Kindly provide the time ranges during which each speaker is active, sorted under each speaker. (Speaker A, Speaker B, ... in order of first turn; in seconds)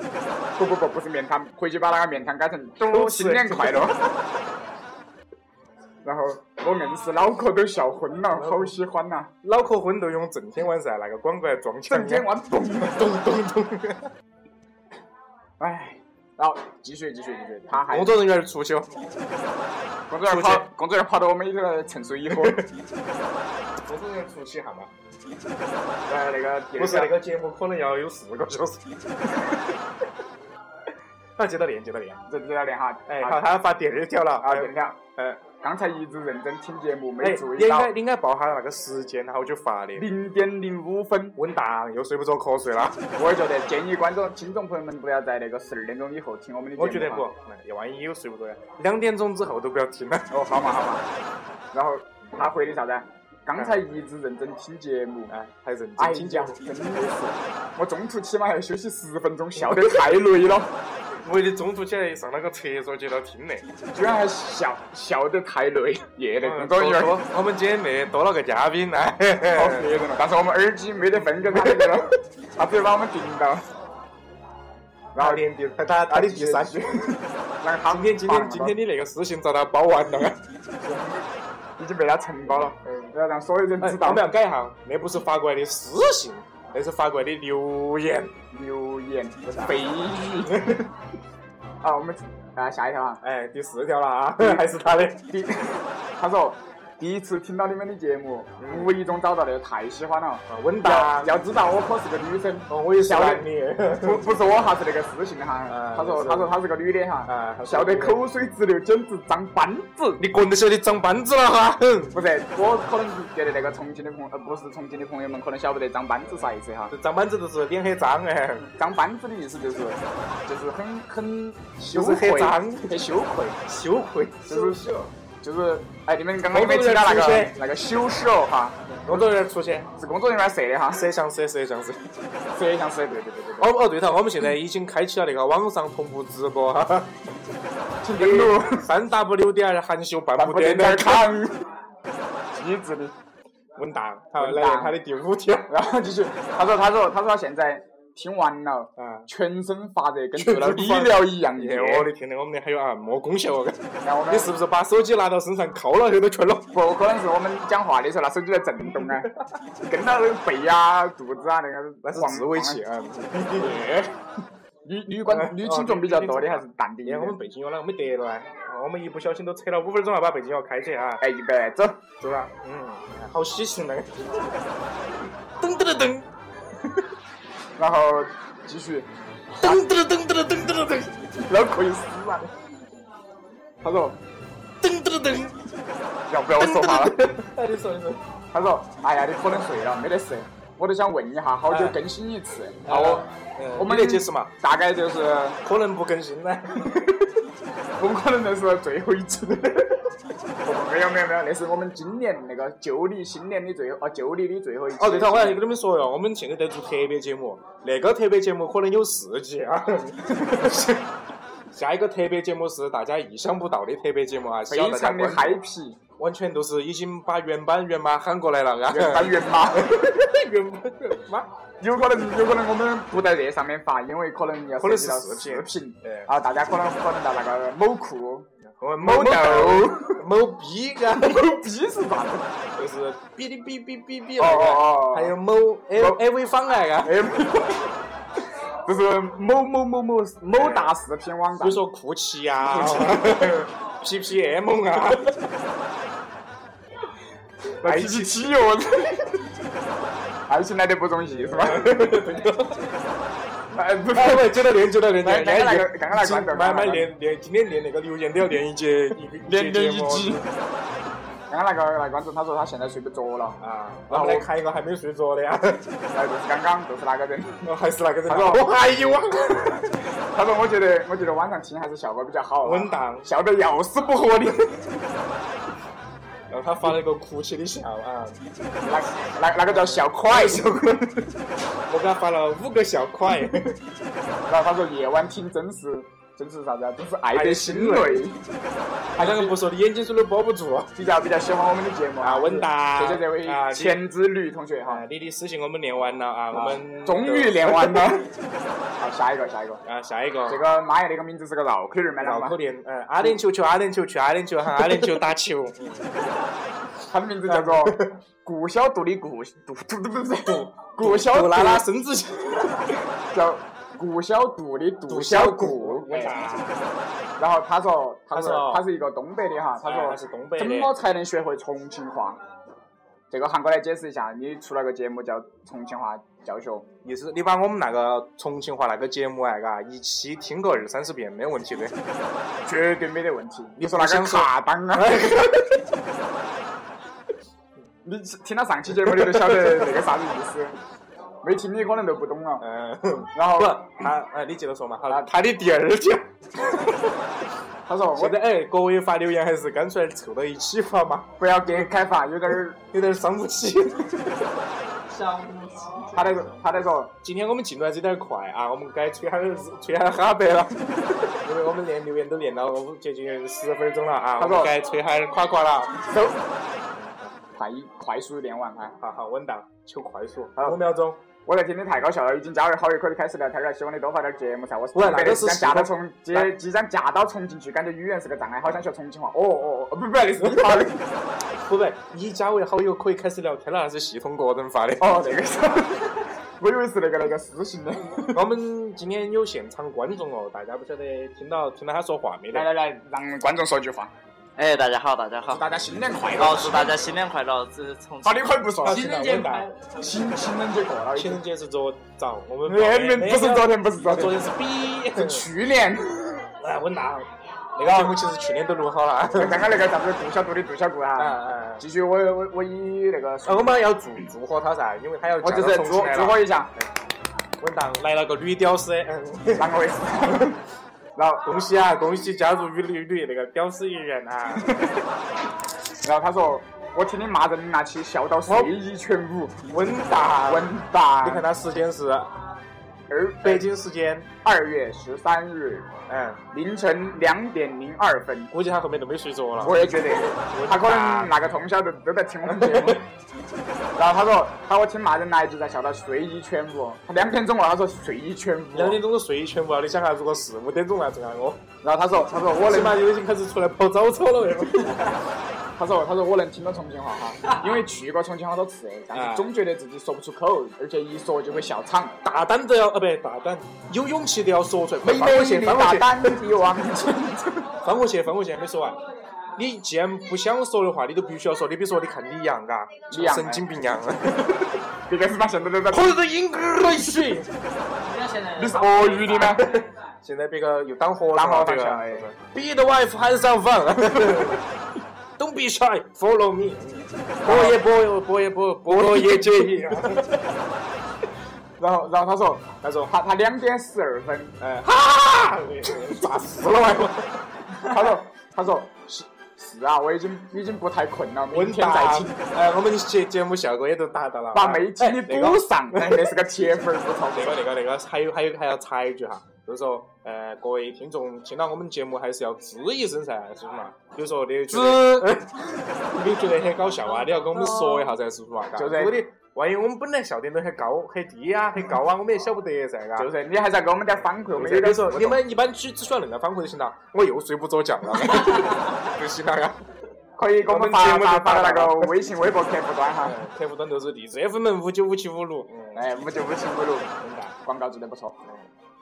Speaker A: 0.6-4.0, 6.0-9.3, 11.9-13.0, 15.6-18.2, 20.1-22.6, 26.1-27.1, 32.3-33.4, 34.4-35.0, 35.6-37.9, 40.0-41.4, 43.1-47.2, 50.3-51.0, 51.7-55.3, 56.0-60.7, 63.9-67.2, 69.5-73.7, 75.1-75.4, 76.1-78.8, 80.8-81.1, 81.8-84.3, 88.5-90.8, 91.8-93.2, 94.4-94.7, 95.2-103.5, 104.0-110.2, 112.1-116.9, 118.6-123.6, 124.5-124.8, 125.4-129.2, 130.0-131.1, 132.5-133.7, 138.0-138.9, 140.4-141.6, 142.5-143.1, 144.3-145.0, 145.7-152.1, 154.0-154.6, 156.7-159.3, 159.8-162.8, 163.6-164.2, 164.8-167.4, 171.2-172.0, 177.8-179.8, 181.4-182.5, 183.8-184.2, 186.3-187.2, 188.5-195.6, 198.0-199.9, 200.6-205.6, 210.4-210.7, 214.7-216.0, 218.9-219.9, 221.8-228.5, 229.0-230.2, 231.1-232.5, 234.4-235.3, 235.9-236.2, 237.0-237.9, 238.8-241.8, 242.7-243.6, 247.8-249.3, 250.5-252.2, 253.7-254.5, 255.2-257.1, 259.5-260.4, 261.5-264.5, 266.1-267.7, 268.3-268.7, 270.3-274.9, 278.8-281.0, 284.5-288.4, 289.1-289.6, 290.9-295.0, 296.5-298.3, 299.0-299.8, 300.5-302.6, 307.1-311.8, 313.3-316.5, 317.4-322.4, 323.3-326.9, 332.6-335.3, 338.0-340.8, 341.4-342.6, 343.3-344.0, 347.9-348.4, 351.4-352.8, 356.1-357.1, 364.4-364.8, 366.0-366.4, 367.6-368.9, 371.4-381.0, 385.0-388.4, 392.5-394.1, 395.5-397.1, 398.2-399.2, 400.0-401.4, 402.6-404.4, 405.1-406.5, 407.8-408.1, 409.3-413.8, 415.4-416.7, 419.5-420.6, 421.1-421.5, 424.6-425.0, 426.0-429.6, 430.4-431.5, 433.1-433.7, 434.4-435.9, 436.5-438.5, 439.6-443.1, 443.9-449.0, 451.8-453.0, 455.8-462.2, 465.0-467.7, 473.1-473.6, 475.1-476.2, 478.5-479.8, 481.3-482.3, 484.2-484.5, 487.4-487.8, 488.9-490.4, 491.8-494.5, 497.8-502.3, 504.5-507.6, 514.7-515.2, 518.7-519.2, 523.2-525.4, 530.4-533.4, 535.9-537.1, 537.6-538.3
Speaker B: 2.8-4.3, 8.3-8.8, 9.4-14.1, 17.7-18.9, 20.2-20.7, 22.3-22.7, 23.8-24.9, 26.8-28.8, 31.4-32.2, 33.1-35.4, 37.2-40.1, 41.4-43.0, 46.8-50.3, 53.5-53.8, 55.3-56.6, 59.5-60.2, 61.2-63.7, 66.4-69.9, 71.3-72.0, 75.2-77.2, 77.8-80.4, 82.8-83.1, 83.8-88.4, 89.4-89.7, 90.4-90.9, 93.2-95.2, 98.6-98.9, 100.5-101.3, 102.7-104.3, 105.7-106.6, 107.2-108.2, 110.2-112.1, 116.9-118.7, 121.8-122.9, 123.7-125.1, 126.5-127.6, 129.0-129.9, 130.9-132.0, 133.6-137.1, 138.2-141.4, 143.8-145.7, 149.0-149.3, 150.3-156.8, 158.9-159.2, 162.0-163.9, 165.3-171.2, 172.2-174.2, 175.6-176.3, 179.6-181.3, 184.8-185.6, 186.6-188.2, 191.7-192.0, 192.8-194.5, 195.6-197.3, 205.0-211.1, 211.7-215.6, 216.2-221.5, 224.8-226.3, 228.7-231.5, 232.8-237.3, 240.6-240.9, 241.6-245.4, 247.8-248.5, 251.3-252.9, 254.1-260.4, 263.6-265.9, 267.6-270.0, 272.6-273.3, 276.5-278.4, 279.6-281.3, 281.9-283.8, 287.3-288.3, 289.1-290.9, 292.2-294.0, 294.8-298.2, 299.8-300.6, 302.2-306.0, 307.5-308.1, 310.5-312.9, 315.1-316.9, 318.3-318.8, 319.8-320.9, 327.0-331.9, 333.8-335.9, 339.0-339.9, 342.6-346.9, 348.1-351.9, 352.9-354.5, 357.2-366.1, 367.0-367.3, 369.0-371.2, 374.9-376.5, 380.4-380.9, 381.6-385.2, 388.3-392.7, 398.8-399.7, 401.1-405.5, 406.6-409.7, 411.2-411.8, 413.4-416.4, 417.6-419.7, 421.4-424.8, 428.5-428.8, 429.7-432.3, 433.4-434.3, 436.1-436.4, 438.5-439.9, 440.4-441.3, 442.4-443.0, 448.7-451.6, 452.6-455.2, 459.1-459.5, 462.2-466.4, 467.8-469.0, 469.5-474.8, 475.9-477.5, 479.3-484.6, 485.4-490.3, 492.8-493.1, 494.6-497.4, 501.5-506.3, 507.3-523.3, 524.5-529.8, 530.6-532.1, 533.2-536.0, 537.2-537.5
Speaker C: 355.1-356.2, 394.6-395.6, 396.4-399.9, 477.9-479.5